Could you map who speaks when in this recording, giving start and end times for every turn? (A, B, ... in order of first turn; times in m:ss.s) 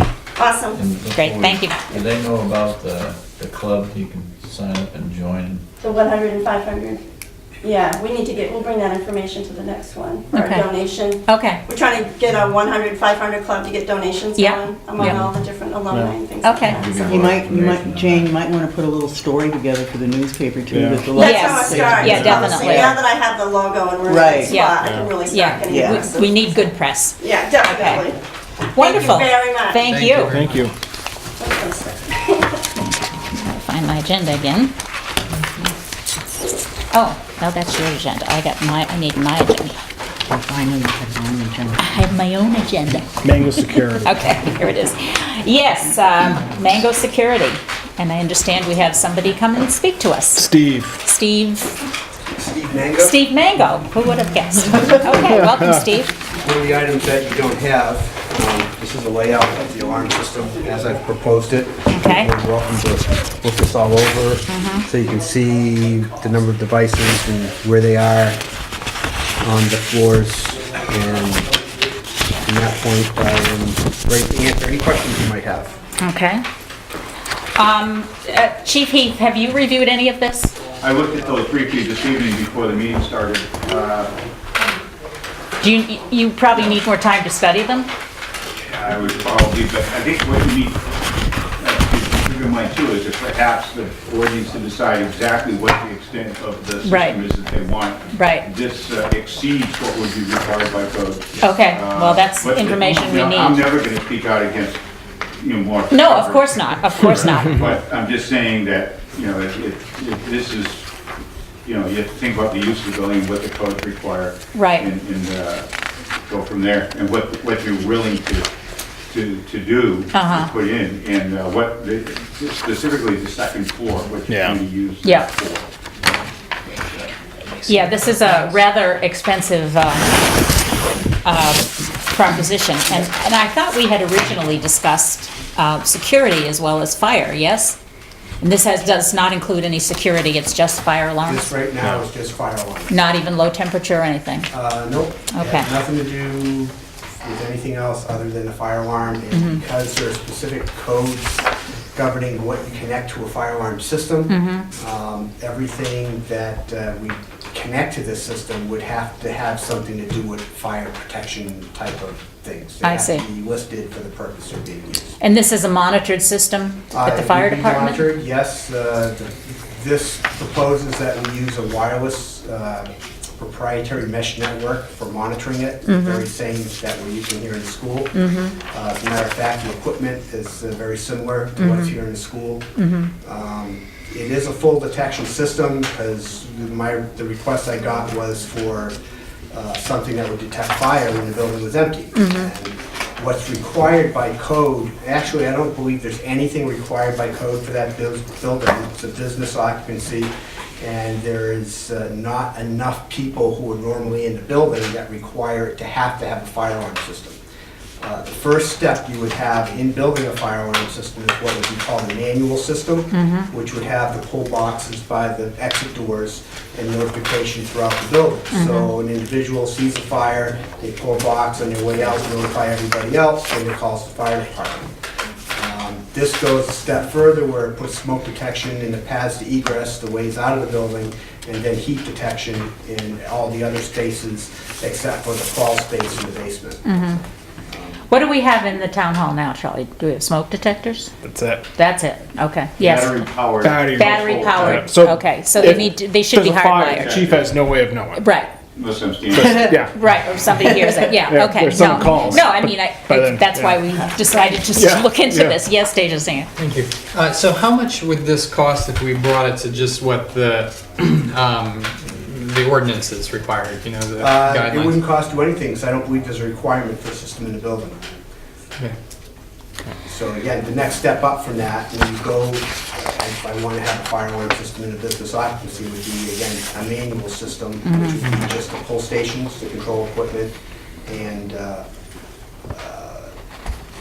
0:00.4-0:00.8 A
0:00.7-0:05.6 B
0:01.1-0:01.8 C
0:05.8-0:07.0 A
0:07.6-0:17.5 A
0:10.3-0:10.7 C
0:11.2-0:11.6 C
0:14.4-0:15.2 C
0:15.0-0:15.3 B
0:16.4-0:16.8 C
0:16.6-0:18.5 B
0:17.1-0:23.0 D
0:20.7-0:21.1 E
0:21.1-0:26.7 A
0:21.2-0:22.9 C
0:21.8-0:22.5 E
0:24.0-0:24.7 D
0:24.5-0:28.1 C
0:24.8-0:25.1 E
0:25.7-0:26.1 D
0:27.2-0:28.2 A
0:28.7-0:29.8 A
0:28.8-0:30.4 C
0:29.8-0:30.7 F
0:30.1-0:30.7 E
0:31.4-0:32.6 A
0:33.3-0:34.7 C
0:36.9-0:39.8 C
0:40.3-0:41.8 D
0:41.8-0:51.7 C
0:43.2-0:44.1 E
0:50.4-0:51.0 E
0:52.3-0:53.2 G
0:53.0-0:56.1 C
0:56.4-1:08.4 G
1:01.9-1:02.3 C
1:04.5-1:04.9 C
1:09.4-1:11.5 G
1:12.4-1:15.7 G
1:16.0-1:16.4 C
1:17.6-1:20.6 C
1:20.8-1:24.1 H
1:25.6-1:27.9 C
1:28.7-1:30.8 H
1:31.6-1:44.8 H
1:36.8-1:37.2 C
1:38.1-1:38.4 C
1:41.4-1:43.6 C
1:45.4-1:50.9 H
1:45.9-1:47.7 C
1:51.6-1:55.7 H
1:54.5-1:54.9 C
1:56.3-1:58.5 H
1:59.1-2:05.7 H
2:00.1-2:00.5 C
2:04.3-2:04.6 E
2:05.0-2:05.3 C
2:06.8-2:07.1 H
2:07.7-2:08.2 H
2:07.7-2:10.2 C
2:11.2-2:17.8 C
2:18.4-2:21.5 C
2:21.2-2:23.0 G
2:22.9-2:24.5 C
2:24.5-2:45.1 G
2:25.3-2:25.7 C
2:29.3-2:29.6 C
2:34.3-2:34.7 C
2:42.8-2:43.2 C
2:45.2-2:48.1 C
2:46.9-2:58.2 G
2:55.8-2:56.2 C
2:58.1-2:58.6 C
2:58.7-3:02.7 G
3:01.6-3:01.9 C
3:02.8-3:03.1 C
3:03.2-3:09.0 G
3:09.5-3:27.4 G
3:12.1-3:12.5 C
3:28.0-3:44.9 G
3:33.1-3:33.5 C
3:38.5-3:38.9 C
3:45.6-3:56.8 G
3:56.8-3:57.2 C
3:57.7-3:58.0 G
3:58.1-4:01.1 C
4:01.2-4:01.6 E
4:01.8-4:03.3 C
4:02.8-4:04.9 H
4:03.6-4:08.2 E
4:03.9-4:07.1 C
4:06.9-4:07.5 H
4:08.2-4:08.5 C
4:08.8-4:09.8 H
4:09.3-4:10.1 E
4:09.8-4:16.5 C
4:11.0-4:13.8 E
4:11.8-4:12.4 H
4:14.8-4:15.6 E
4:16.6-4:25.0 F
4:24.2-4:28.0 G
4:30.0-4:40.5 G
4:37.8-4:38.2 C
4:41.0-4:41.8 G
4:42.7-4:43.3 G